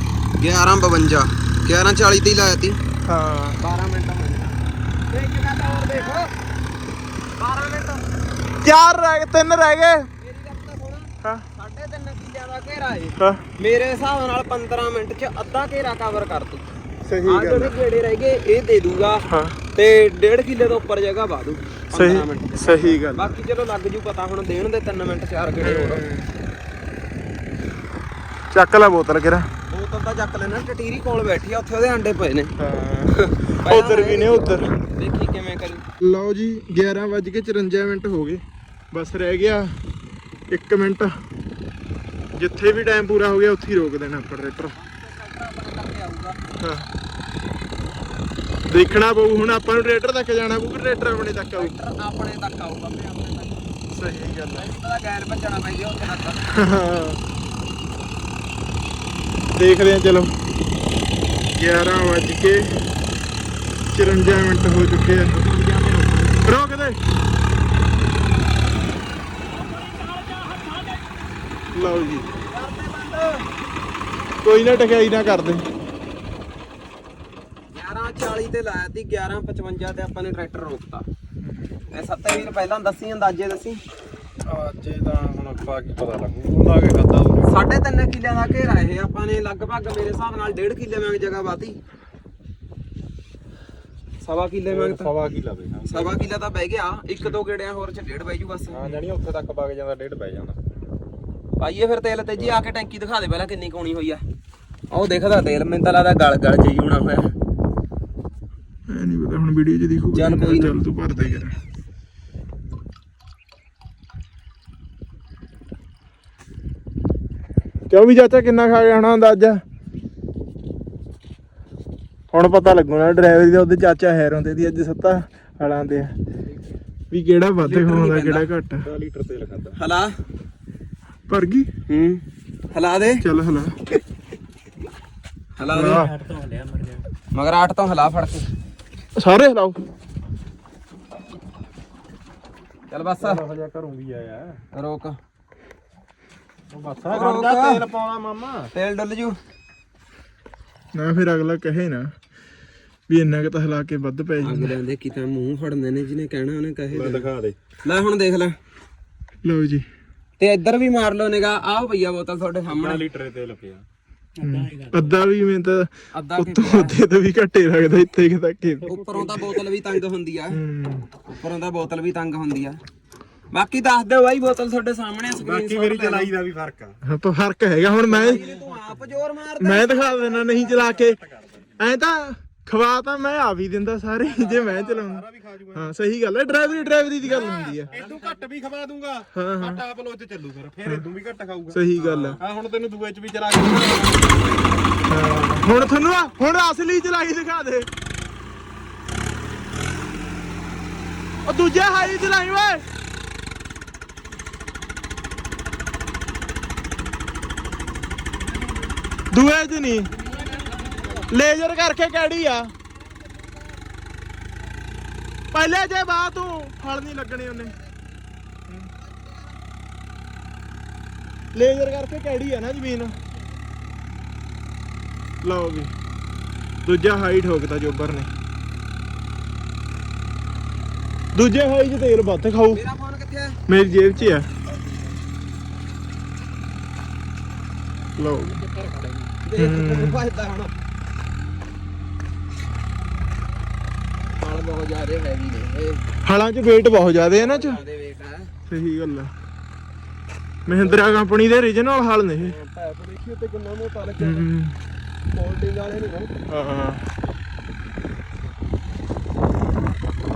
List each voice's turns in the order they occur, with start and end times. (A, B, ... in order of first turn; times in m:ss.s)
0:00.4-0:02.8 A
0:03.0-0:03.6 B
0:03.6-0:04.6 A
0:05.1-0:06.3 A
0:07.4-0:08.0 A
0:08.6-0:10.0 B
0:10.2-0:16.6 A
0:13.2-0:13.4 B
0:17.0-0:17.7 B
0:17.2-0:26.1 A
0:19.2-0:19.6 B
0:21.9-0:23.2 B
0:25.6-0:26.3 B
0:28.5-0:29.5 B
0:29.7-0:35.8 A
0:32.6-0:34.7 B
0:36.0-0:39.7 B
0:40.5-0:41.1 B
0:42.4-0:44.7 B
0:44.8-0:46.4 A
0:46.6-0:46.9 B
0:48.7-0:51.7 B
0:51.5-0:53.7 A
0:53.9-0:54.7 B
0:54.5-0:56.6 A
0:56.5-0:57.2 B
0:59.6-1:00.3 B
1:01.6-1:02.7 B
1:03.9-1:05.4 B
1:05.3-1:06.4 A
1:06.4-1:07.0 B
1:09.9-1:10.9 A
1:11.7-1:12.2 B
1:12.4-1:13.5 A
1:14.4-1:15.6 B
1:17.7-1:21.0 A
1:21.9-1:23.8 A
1:24.4-1:27.6 C
1:27.4-1:31.8 A
1:34.2-1:35.1 A
1:34.7-1:36.3 C
1:35.8-1:39.0 A
1:38.7-1:40.6 C
1:41.6-1:44.2 A
1:44.9-1:47.3 A
1:48.9-1:51.5 B
1:50.1-1:50.8 A
1:57.9-1:59.6 B
2:02.3-2:06.1 B
2:07.1-2:08.8 B
2:07.6-2:08.1 C
2:07.7-2:08.5 A
2:08.8-2:09.8 C
2:09.8-2:10.1 A
2:11.3-2:11.7 B
2:11.9-2:13.2 A
2:13.2-2:13.8 B
2:15.6-2:16.0 A
2:15.7-2:16.2 B
2:16.2-2:16.8 C
2:17.3-2:18.5 A
2:19.2-2:19.8 B
2:22.9-2:23.4 A
2:23.2-2:24.6 C
2:24.7-2:25.2 A
2:26.7-2:28.7 C
2:27.0-2:27.8 A
2:28.7-2:29.4 A
2:30.9-2:32.1 B
2:33.1-2:34.7 B
2:34.4-2:37.3 A
2:36.9-2:37.6 C
2:37.8-2:38.5 A
2:39.4-2:39.8 B
2:40.4-2:43.0 A
2:42.7-2:43.8 C
2:44.4-2:48.9 B
2:46.1-2:47.0 A
2:48.8-2:50.6 A
2:48.9-2:49.5 C
2:50.5-2:51.1 B
2:51.3-2:52.8 A
2:53.5-2:56.3 A
2:55.3-2:57.0 C
2:57.0-2:58.4 B
2:58.1-3:01.0 A
2:59.6-3:01.2 B
3:00.9-3:01.5 C
3:01.8-3:08.0 B
3:04.2-3:05.9 C
3:06.8-3:14.8 C
3:07.9-3:08.2 A
3:09.3-3:09.8 B
3:11.7-3:12.4 B
3:12.0-3:12.4 A
3:15.1-3:17.9 B
3:21.4-3:22.8 B
3:29.3-3:30.1 B
3:30.2-3:31.3 A
3:30.6-3:31.2 C
3:31.3-3:32.7 B
3:35.5-3:37.7 B
3:39.0-3:39.5 A
3:41.5-3:43.1 B
3:45.4-3:45.9 B
3:46.8-3:48.3 B
3:51.3-3:52.8 B
3:52.7-3:53.6 A
3:53.7-3:54.5 B
3:58.2-3:58.6 B
3:58.6-3:59.2 C
3:59.4-4:00.7 A
3:59.6-4:00.2 B
4:04.4-4:06.1 A
4:06.2-4:07.8 B
4:07.3-4:08.5 A
4:08.7-4:09.3 B
4:10.7-4:12.6 B
4:10.7-4:11.1 A
4:12.4-4:14.4 A
4:14.2-4:14.8 B
4:15.3-4:16.3 A
4:16.5-4:17.0 B